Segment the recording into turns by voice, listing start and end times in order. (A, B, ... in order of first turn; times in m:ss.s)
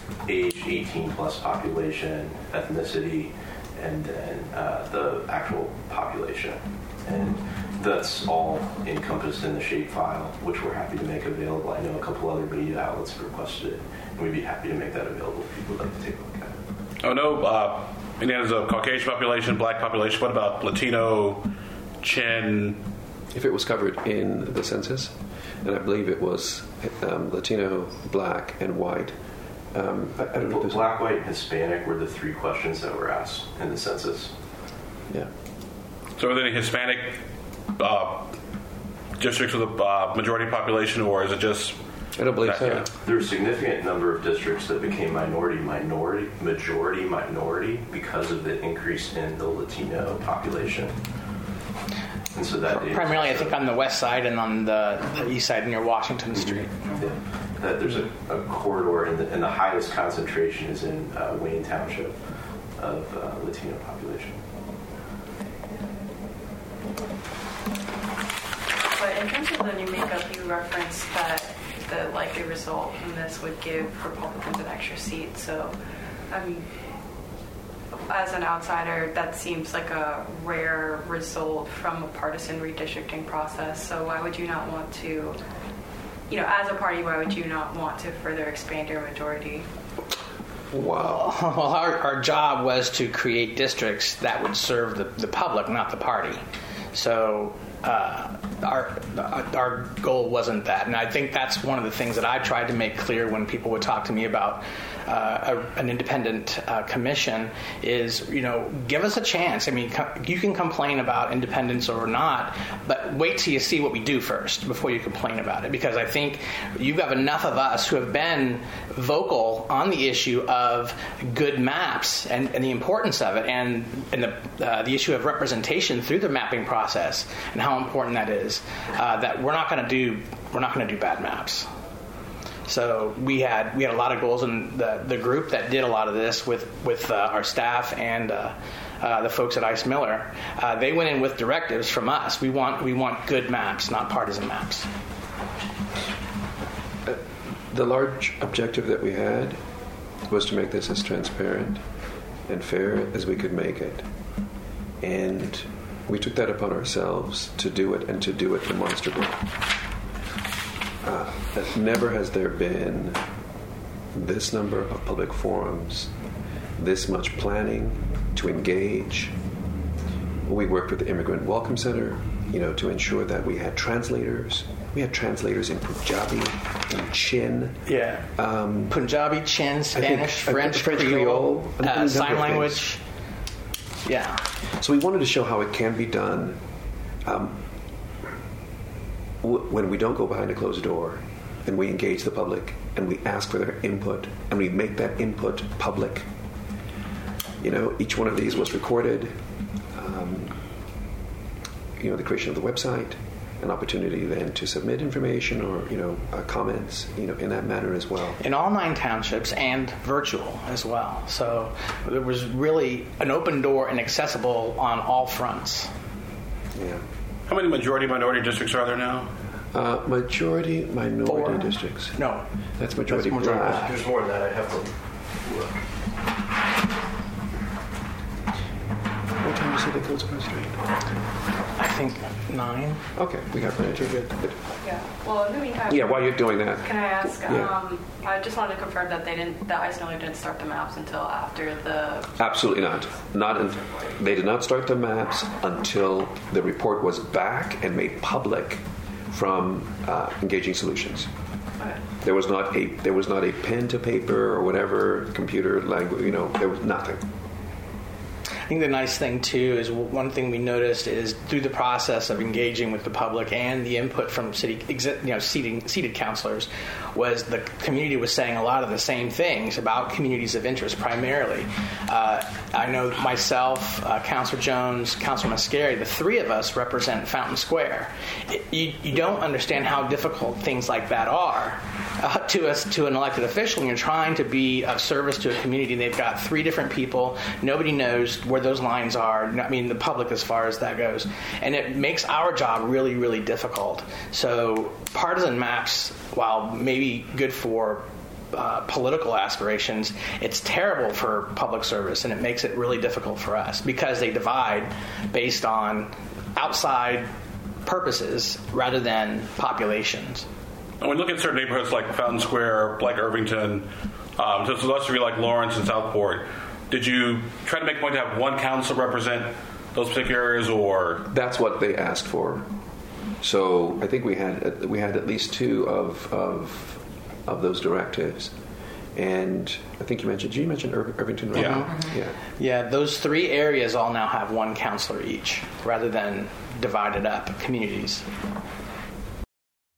0:00.2-0:16.6 A
0:17.0-0:21.5 B
0:22.0-0:22.8 B
0:23.3-0:29.1 C
0:29.7-0:30.9 C
0:30.4-0:34.3 A
0:36.2-0:37.2 B
0:37.8-0:38.3 B
0:39.2-0:41.8 B
0:42.2-0:42.9 C
0:42.4-0:42.9 B
0:43.0-0:51.0 A
0:52.3-0:53.6 A
0:52.7-0:56.8 D
0:56.9-1:02.2 A
1:02.8-1:04.4 A
1:08.9-1:15.8 E
1:16.3-1:16.7 E
1:18.1-1:25.4 E
1:26.3-1:29.7 E
1:30.7-1:31.3 C
1:31.0-1:36.4 D
1:36.9-2:11.7 D
2:12.7-2:24.9 D
2:27.7-2:29.6 C
2:30.3-2:31.8 C
2:32.5-2:34.1 C
2:35.0-2:39.4 C
2:41.0-2:43.2 C
2:44.1-2:46.1 C
2:46.8-2:49.3 C
2:50.4-2:57.8 C
2:57.9-2:58.3 D
2:58.4-2:59.0 C
2:58.9-3:03.0 D
2:59.9-3:02.8 C
3:04.0-3:04.4 D
3:04.8-3:06.6 C
3:07.2-3:07.6 C
3:09.4-3:16.3 C
3:17.6-3:19.4 C
3:19.9-3:20.6 C
3:22.0-3:28.4 C
3:28.4-3:35.9 D
3:36.7-3:37.0 C
3:37.5-3:39.3 B
3:39.7-3:42.2 C
3:41.3-3:42.4 D
3:42.8-3:43.9 C
3:43.1-3:44.0 D
3:43.7-3:45.7 A
3:49.4-3:50.8 C
3:51.8-3:53.0 D
3:53.2-3:54.6 C
3:54.0-3:54.3 D
3:54.8-4:02.3 E
3:55.9-3:57.7 C
4:02.4-4:11.3 C
4:12.2-4:17.2 C
4:18.7-5:07.3 D
5:07.8-5:10.5 D
5:11.0-5:21.3 B
5:21.3-5:22.7 C
5:23.4-5:28.5 C
5:29.2-5:32.4 C
5:31.5-5:38.3 D